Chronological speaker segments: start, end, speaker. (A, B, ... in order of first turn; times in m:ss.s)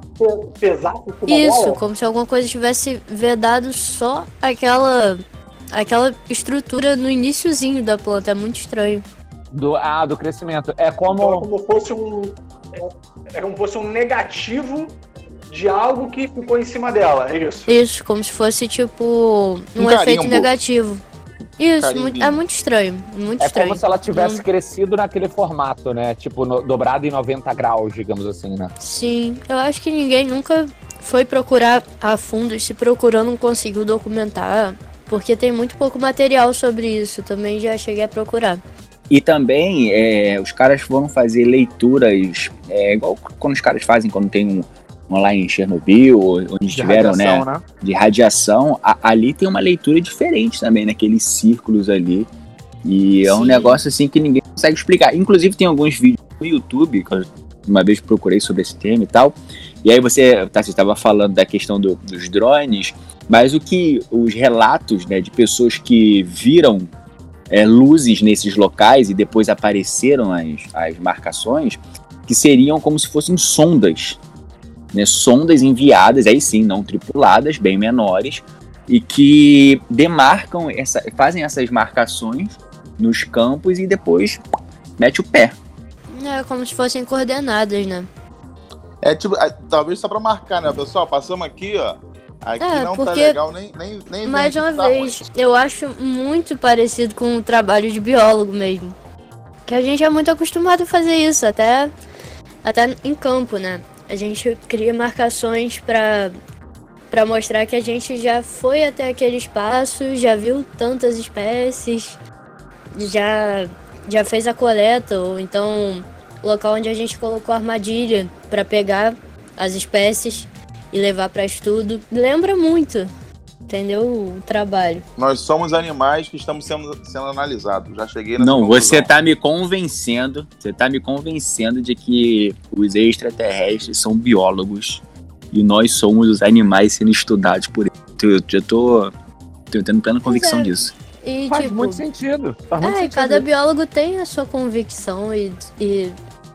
0:00.2-0:01.8 A
0:01.3-0:05.2 B
0:05.7-0:09.0 B
0:09.5-0:11.5 C
0:11.1-0:15.0 A
0:15.5-0:17.7 A
0:17.7-0:21.0 B
0:19.8-0:20.5 D
0:21.6-0:24.4 B
0:21.8-0:22.4 D
0:23.4-0:28.7 C
0:28.8-0:38.6 B
0:39.1-0:52.3 E
0:46.7-0:47.6 C
0:52.8-1:06.9 E
0:53.2-0:53.8 B
1:07.5-1:14.2 E
1:14.9-1:24.4 E
1:25.0-1:25.6 E
1:26.1-1:28.1 B
1:29.0-1:35.2 D
1:32.6-1:33.4 B
1:34.2-1:39.0 B
1:39.7-1:41.9 B
1:42.6-1:46.3 B
1:47.1-1:52.2 B
1:53.0-2:03.1 B
2:03.7-2:05.1 B
2:05.2-2:09.1 D
2:08.4-2:19.1 E
2:19.7-2:20.9 E
2:20.3-2:22.0 B
2:21.5-2:23.5 C
2:22.8-2:26.2 B